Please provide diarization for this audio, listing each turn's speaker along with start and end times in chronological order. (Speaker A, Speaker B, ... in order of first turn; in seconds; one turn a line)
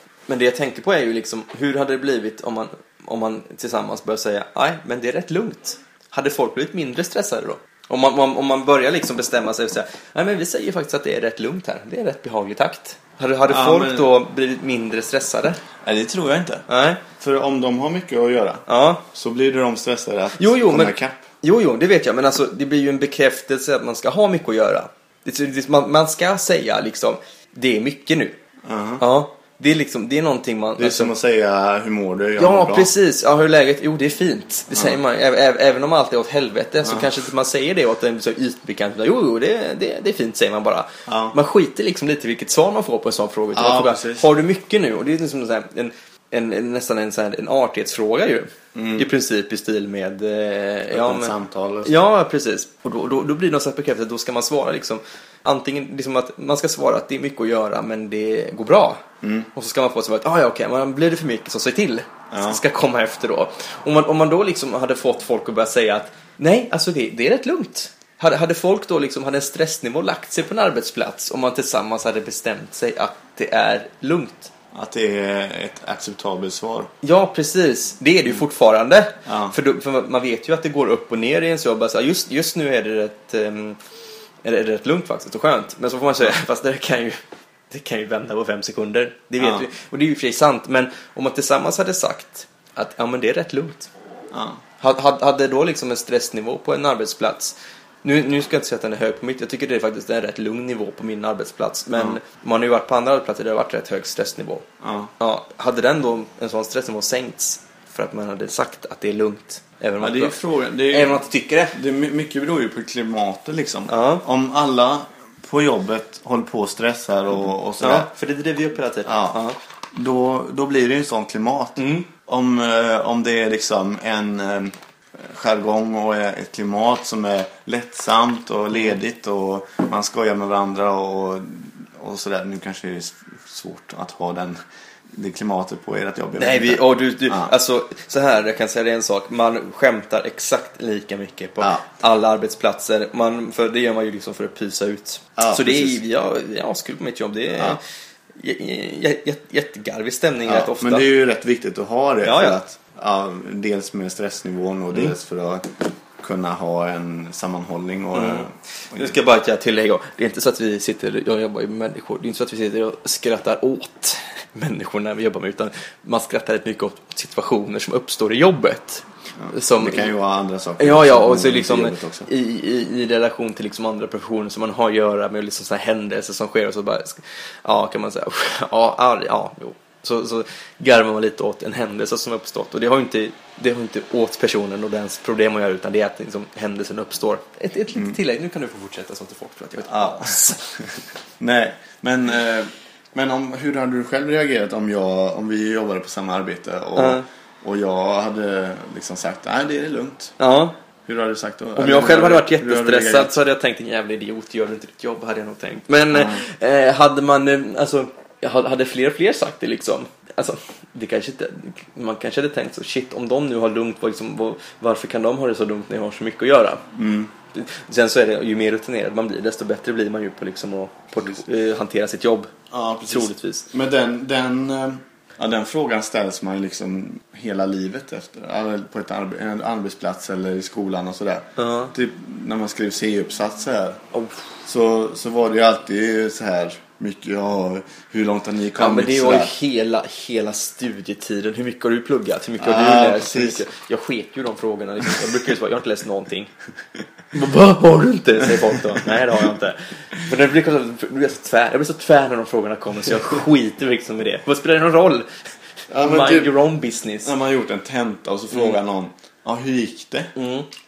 Speaker A: 0.3-15.6
Speaker B: 13.5-14.1
Speaker B: 15.8-16.6
Speaker A: 16.7-17.0
Speaker B: 17.2-21.2
Speaker A: 18.7-19.0
Speaker A: 20.4-28.4
Speaker B: 28.6-29.0
Speaker A: 29.0-31.1
Speaker B: 30.8-32.9
Speaker A: 32.4-59.0
Speaker B: 34.7-35.0
Speaker B: 36.8-37.1
Speaker B: 41.1-41.4
Speaker B: 43.5-44.3
Speaker B: 48.7-49.1
Speaker B: 50.9-51.9
Speaker B: 59.2-59.5
Speaker A: 59.5-74.5
Speaker B: 62.3-62.6
Speaker B: 74.7-76.9
Speaker A: 77.0-83.8
Speaker B: 79.2-79.5
Speaker A: 84.4-87.2
Speaker A: 87.7-93.9
Speaker B: 89.4-89.7
Speaker B: 94.3-94.6
Speaker A: 94.8-104.7
Speaker B: 104.8-105.1
Speaker A: 105.2-111.8
Speaker B: 110.0-118.1
Speaker A: 113.9-114.2
Speaker A: 117.8-119.6
Speaker B: 119.0-119.4
Speaker B: 119.9-134.6
Speaker A: 121.8-122.1
Speaker B: 135.1-137.5
Speaker A: 136.4-147.8
Speaker B: 145.4-146.0
Speaker A: 148.4-151.1
Speaker B: 150.4-159.1
Speaker A: 152.2-152.6
Speaker A: 158.1-170.1
Speaker B: 169.4-172.3
Speaker A: 170.8-190.8
Speaker B: 189.8-190.4
Speaker B: 191.4-200.3
Speaker A: 196.9-197.2
Speaker A: 200.4-200.7
Speaker B: 201.1-203.3
Speaker A: 201.8-216.8
Speaker B: 206.1-206.4
Speaker B: 216.9-217.3
Speaker A: 217.5-222.5
Speaker B: 222.7-234.0
Speaker A: 223.1-223.7
Speaker A: 231.6-231.9
Speaker A: 234.1-234.4
Speaker B: 234.7-239.5
Speaker A: 238.8-246.5
Speaker B: 242.6-243.6
Speaker A: 247.3-255.3
Speaker B: 255.9-256.6
Speaker A: 256.0-257.3
Speaker B: 257.2-260.3
Speaker A: 258.5-258.8
Speaker A: 260.3-260.7